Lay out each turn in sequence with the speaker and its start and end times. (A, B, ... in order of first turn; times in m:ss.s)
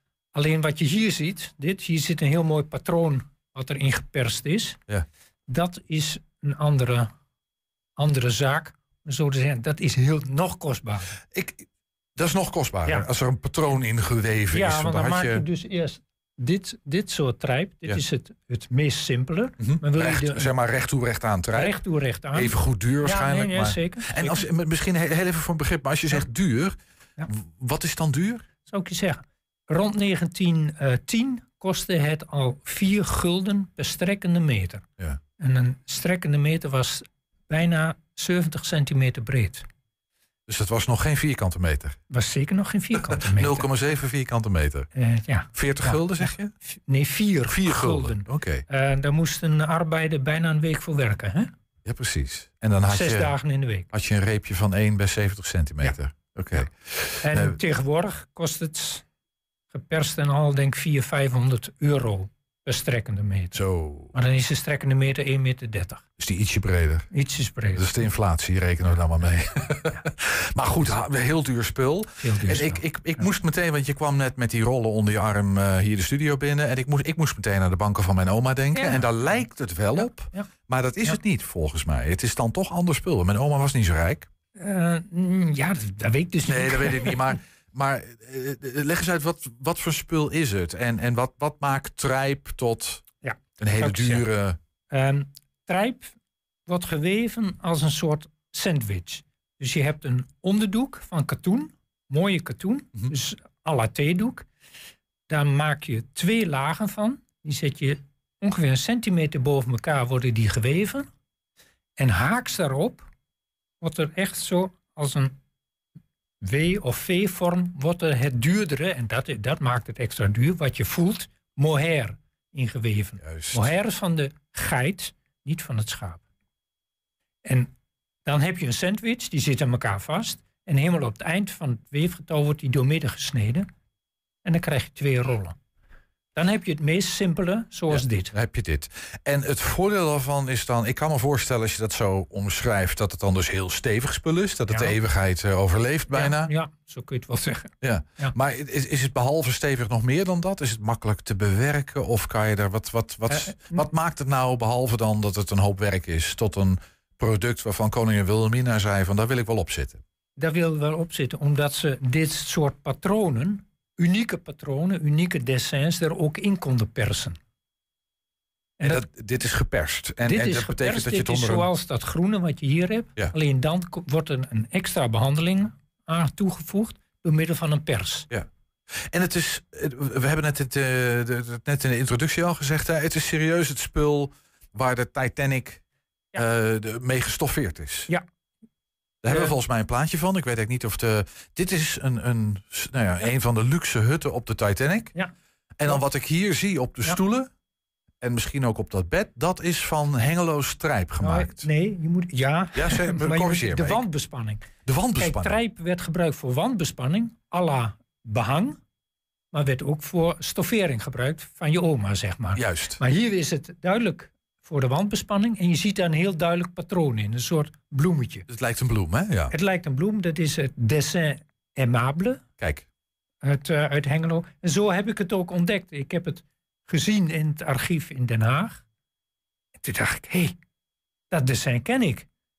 0:00.3-0:04.8 A
0:05.5-0:07.1 A
0:08.0-0:11.1 A
0:11.3-0:15.4 B
0:14.5-0:20.5 A
0:19.6-0:21.8 B
0:21.5-0:24.4 A
0:22.3-0:26.8 B
0:27.3-0:28.4 B
0:28.6-0:34.8 A
0:35.4-0:39.6 A
0:40.5-0:42.0 B
0:42.1-0:43.6 A
0:43.3-0:44.9 B
0:44.9-0:51.5 A
0:45.5-0:46.5 B
0:47.5-0:48.6 B
0:51.8-0:53.3 B
0:52.9-0:53.9 A
0:53.9-0:57.6 B
0:57.2-0:59.0 A
0:59.7-1:03.6 A
1:03.5-1:04.1 B
1:04.1-1:06.0 A
1:06.2-1:07.1 B
1:07.1-1:07.8 A
1:07.8-1:24.3 B
1:12.2-1:13.2 A
1:18.7-1:19.1 A
1:19.9-1:20.5 A
1:24.6-1:27.2 A
1:26.5-1:33.0 B
1:33.2-1:34.3 A
1:33.6-1:34.6 B
1:34.9-1:36.1 A
1:36.7-1:44.4 A
1:45.3-1:51.1 A
1:52.0-1:53.1 A
1:53.8-1:55.3 A
1:56.4-2:06.2 A
2:03.2-2:03.6 B
2:07.4-2:07.7 A
2:08.2-2:13.7 A
2:14.4-2:15.6 A
2:16.3-2:18.3 A
2:17.9-2:26.5 B
2:26.1-2:28.3 A
2:27.8-2:40.0 B
2:33.3-2:33.8 A
2:40.4-2:47.4 A
2:48.8-2:51.7 B
2:50.2-2:58.3 A
2:59.1-3:05.8 B
3:06.3-3:08.1 B
3:09.2-3:15.1 B
3:09.3-3:09.5 A
3:15.8-3:17.5 B
3:18.2-3:21.6 B
3:21.2-3:28.8 A
3:22.7-3:24.0 B
3:24.8-3:25.6 B
3:29.5-3:38.4 A
3:32.6-3:33.0 B
3:38.5-3:39.5 B
3:39.5-3:42.4 A
3:42.6-3:42.8 B
3:43.4-3:48.8 A
3:49.8-3:50.6 A
3:51.3-3:52.3 A